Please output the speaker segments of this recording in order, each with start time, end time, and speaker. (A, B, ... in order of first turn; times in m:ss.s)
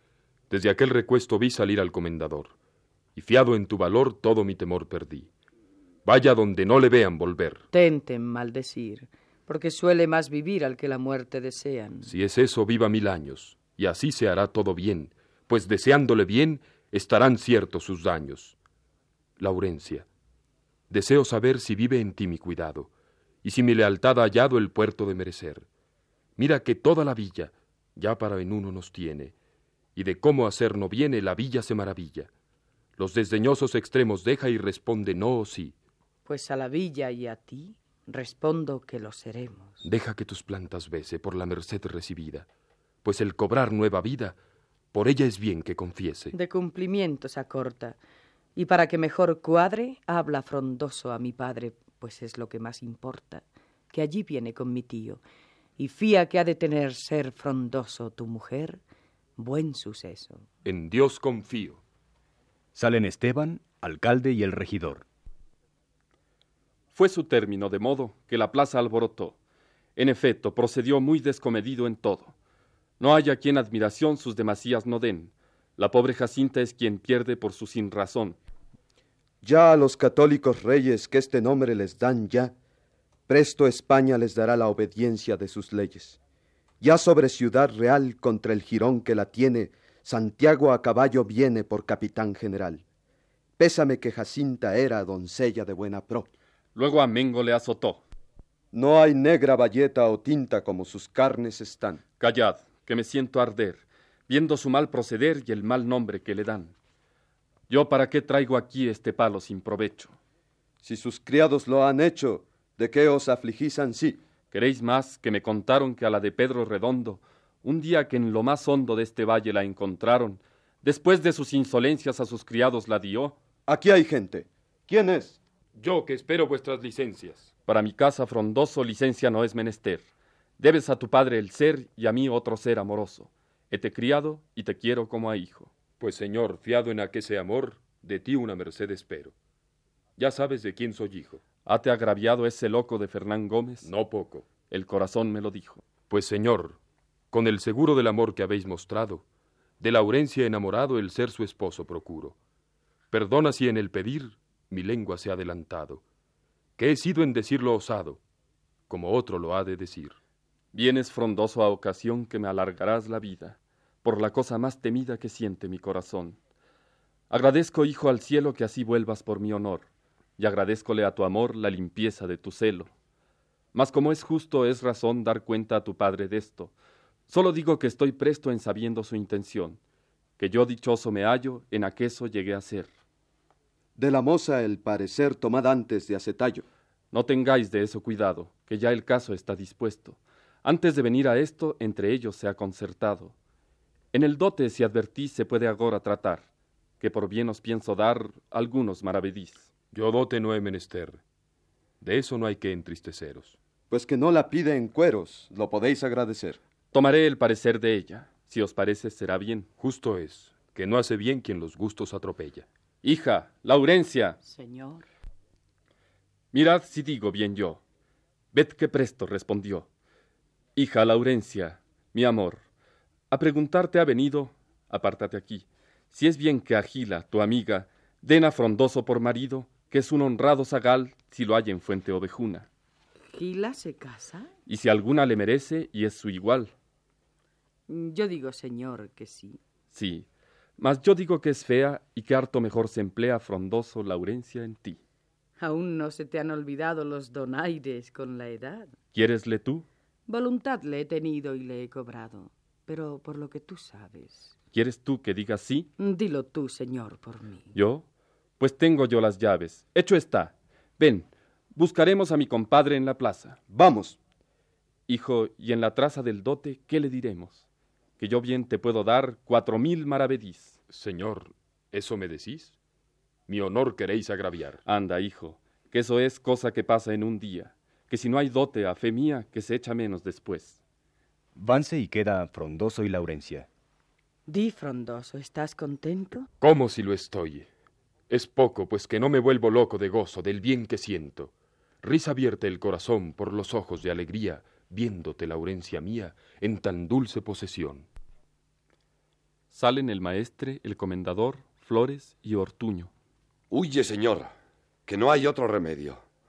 0:00.5-0:02.5 A
0:03.2-0:05.3 A
0:06.0-0:07.6 A
0:07.7-0:12.1 B
0:12.0-0:18.6 A
0:19.4-0:20.0 A
0:20.9-0:22.9 A
0:23.4-0:25.6 A
0:26.4-0:29.3 A
0:29.9-0:32.3 A
0:33.0-0:35.8 A
0:36.2-0:39.8 B
0:39.8-0:42.5 A
0:43.0-0:44.4 A
0:44.9-0:46.3 A
0:46.3-0:48.0 B
0:48.6-0:55.2 B
0:55.8-0:58.8 B
0:59.4-1:00.4 B
1:00.6-1:01.8 A
1:02.8-1:05.0 C
1:06.9-1:09.4 D
1:10.0-1:12.3 D
1:13.0-1:18.4 D
1:19.4-1:22.5 E
1:23.3-1:26.2 E
1:26.8-1:32.8 E
1:33.6-1:36.3 E
1:36.8-1:38.0 D
1:38.7-1:42.0 E
1:42.2-1:46.7 D
1:47.7-1:50.1 D
1:50.8-1:54.2 E
1:54.5-2:03.4 D
2:03.7-2:05.4 E
2:05.8-2:07.5 A
2:07.7-2:10.0 D
2:10.6-2:15.7 D
2:16.0-2:19.3 A
2:20.2-2:21.4 A
2:21.6-2:23.9 D
2:23.8-2:24.4 A
2:24.7-2:25.8 D
2:26.1-2:26.8 A
2:27.3-2:29.2 A
2:29.8-2:32.4 A
2:33.1-2:36.0 A
2:36.8-2:38.2 A
2:38.9-2:40.2 A
2:40.7-2:46.4 D
2:47.3-2:49.9 D
2:50.4-2:52.9 D
2:53.7-2:56.7 D
2:57.3-2:59.8 D
3:00.4-3:02.9 D
3:04.0-3:06.6 E
3:07.1-3:13.3 D
3:14.1-3:16.4 D
3:17.0-3:19.7 D
3:19.9-3:21.2 A
3:22.0-3:23.6 A
3:23.9-3:26.6 E
3:26.9-3:29.7 D
3:29.8-3:32.6 A
3:33.0-3:34.4 D
3:34.4-3:35.1 B
3:36.5-3:37.8 D
3:38.5-3:39.9 D
3:40.8-3:42.6 D
3:43.3-3:52.7 D
3:53.3-3:54.5 B
3:54.7-3:56.7 D
3:57.9-3:59.6 B
3:59.9-4:00.2 D
4:00.8-4:05.0 D
4:05.6-4:08.9 B
4:09.1-4:09.9 D
4:10.3-4:14.5 B
4:14.7-4:15.9 D
4:16.0-4:17.7 B
4:17.7-4:18.0 D
4:18.6-4:23.6 D
4:23.7-4:24.2 E
4:25.1-4:27.6 D
4:28.2-4:30.8 D
4:30.9-4:32.7 A
4:33.5-4:34.8 A
4:34.9-4:40.8 D
4:41.6-4:43.7 C
4:44.5-4:46.5 B
4:46.6-4:47.7 A
4:48.3-4:58.1 A
4:59.7-5:03.1 D
5:03.7-5:04.5 F
5:05.1-5:06.2 F